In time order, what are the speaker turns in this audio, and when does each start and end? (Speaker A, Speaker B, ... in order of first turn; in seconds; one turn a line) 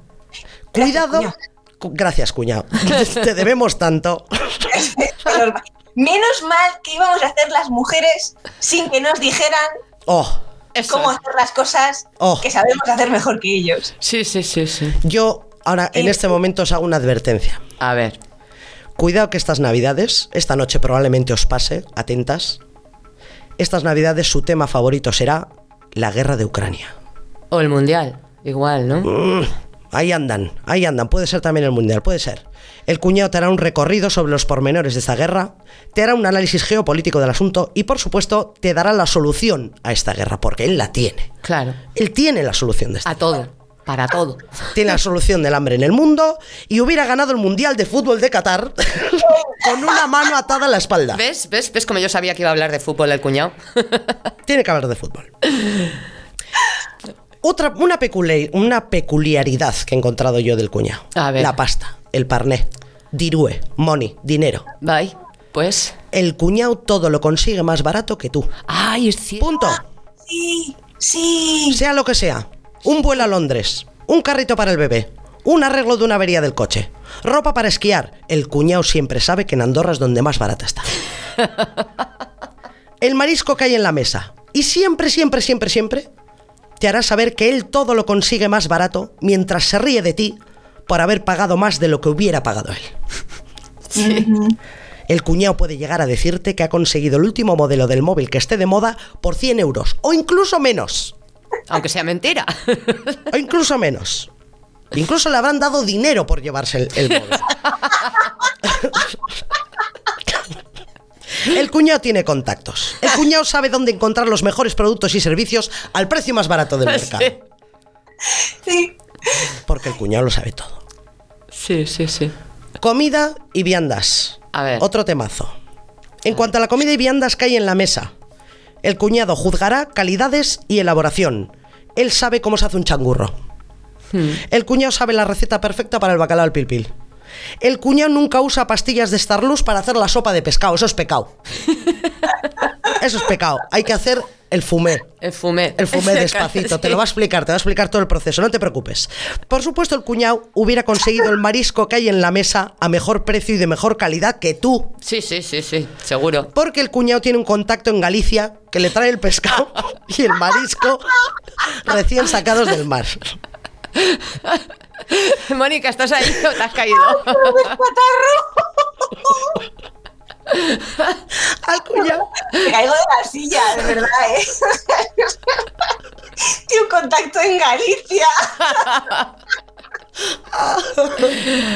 Speaker A: 0.7-4.8
Speaker B: 0.8-1.3
Speaker B: 4.7-9.8
Speaker A: 10.1-10.4
Speaker C: 10.7-11.1
Speaker B: 10.9-13.9
Speaker A: 12.2-12.5
Speaker C: 14.0-15.0
Speaker A: 15.0-17.6
Speaker B: 15.9-16.2
Speaker C: 17.8-18.2
Speaker A: 19.0-22.6
Speaker A: 23.6-26.9
Speaker C: 27.5-29.1
Speaker A: 29.0-41.3
Speaker C: 41.4-41.8
Speaker A: 41.9-43.2
Speaker C: 43.0-44.6
Speaker A: 44.7-51.2
Speaker C: 51.1-54.1
Speaker A: 54.5-55.3
Speaker A: 57.4-64.7
Speaker C: 61.1-61.5
Speaker C: 64.8-65.9
Speaker A: 66.1-68.5
Speaker C: 68.7-69.6
Speaker A: 69.4-69.8
Speaker B: 69.7-71.8
Speaker A: 71.7-80.9
Speaker A: 83.0-86.1
Speaker A: 86.8-92.9
Speaker C: 93.9-94.3
Speaker B: 94.0-94.6
Speaker A: 95.1-101.1
Speaker C: 101.7-103.2
Speaker A: 103.3-104.3
Speaker A: 104.9-107.5
Speaker A: 108.6-109.1
Speaker A: 111.4-117.3
Speaker C: 116.9-117.3
Speaker B: 118.3-119.4
Speaker A: 119.7-120.8
Speaker C: 121.5-122.3
Speaker A: 122.8-125.5
Speaker C: 124.5-124.8
Speaker A: 126.2-128.1
Speaker A: 128.8-133.3
Speaker C: 134.1-134.4
Speaker A: 134.4-136.9
Speaker A: 137.6-141.3
Speaker A: 142.8-145.1
Speaker C: 145.2-147.0
Speaker A: 145.8-154.9
Speaker C: 155.0-156.5
Speaker A: 156.5-163.3
Speaker C: 164.0-167.8
Speaker B: 167.1-169.6
Speaker C: 170.5-171.2
Speaker A: 171.4-172.3
Speaker B: 172.1-175.7
Speaker B: 176.4-179.1
Speaker A: 180.5-181.4